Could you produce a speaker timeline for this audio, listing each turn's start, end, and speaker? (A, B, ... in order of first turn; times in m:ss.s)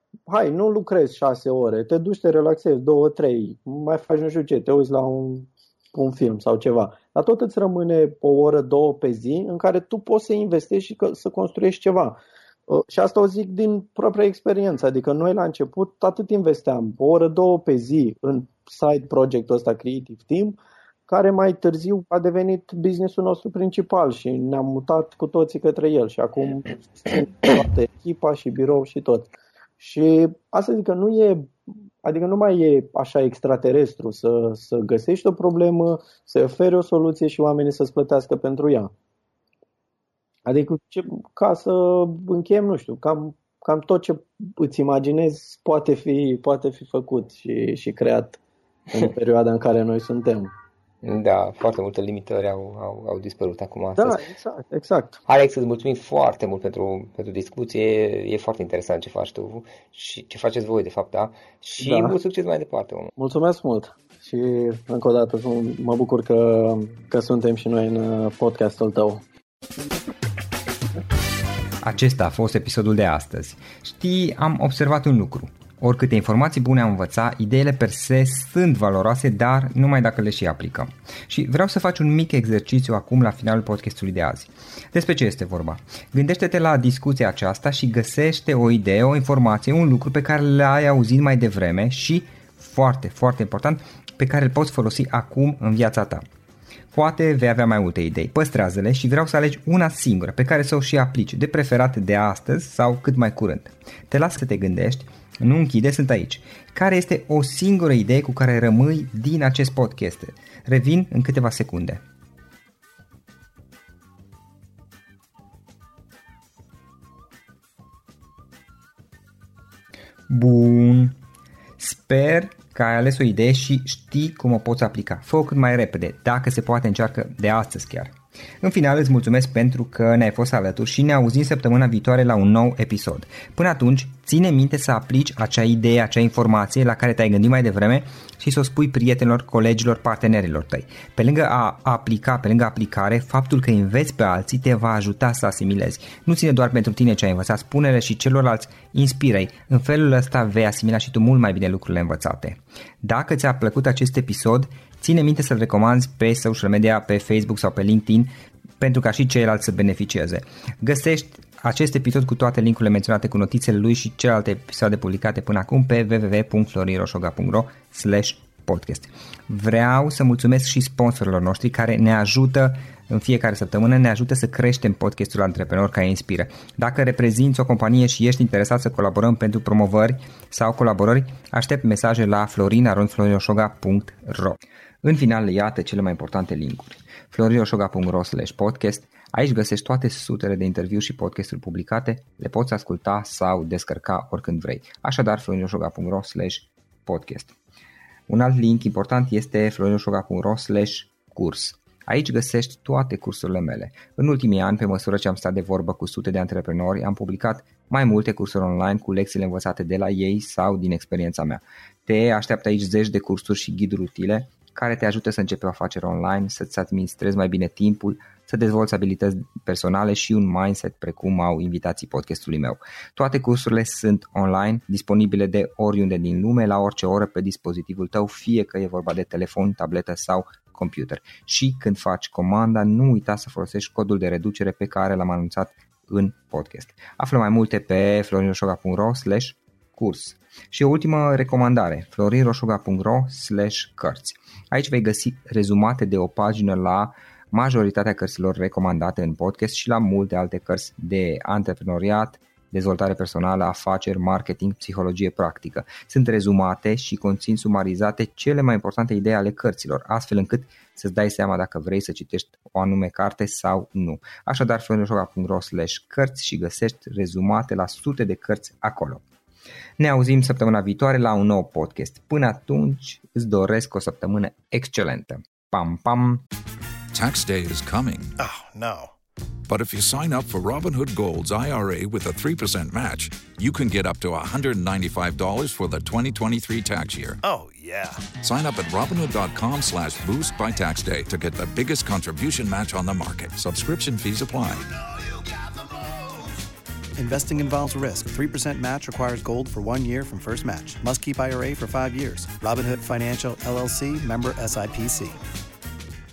0:00.3-0:20.6 A
0:21.1-0:38.9 A
0:40.4-0:48.4 A
0:48.9-0:50.5 A
0:51.0-0:54.2 B
0:54.0-0:55.2 A
0:55.3-1:03.1 B
1:01.8-1:02.2 A
1:03.2-1:09.2 A
1:11.8-1:36.2 C
1:36.9-1:52.0 C
2:00.3-2:01.2 C
2:01.8-3:17.5 C
3:18.3-4:29.2 C
4:30.0-4:36.4 C
4:37.1-4:38.3 D
4:38.4-4:39.1 E
4:39.7-4:47.4 D
4:47.4-4:48.2 E
4:48.4-4:54.9 D
4:57.2-5:05.4 E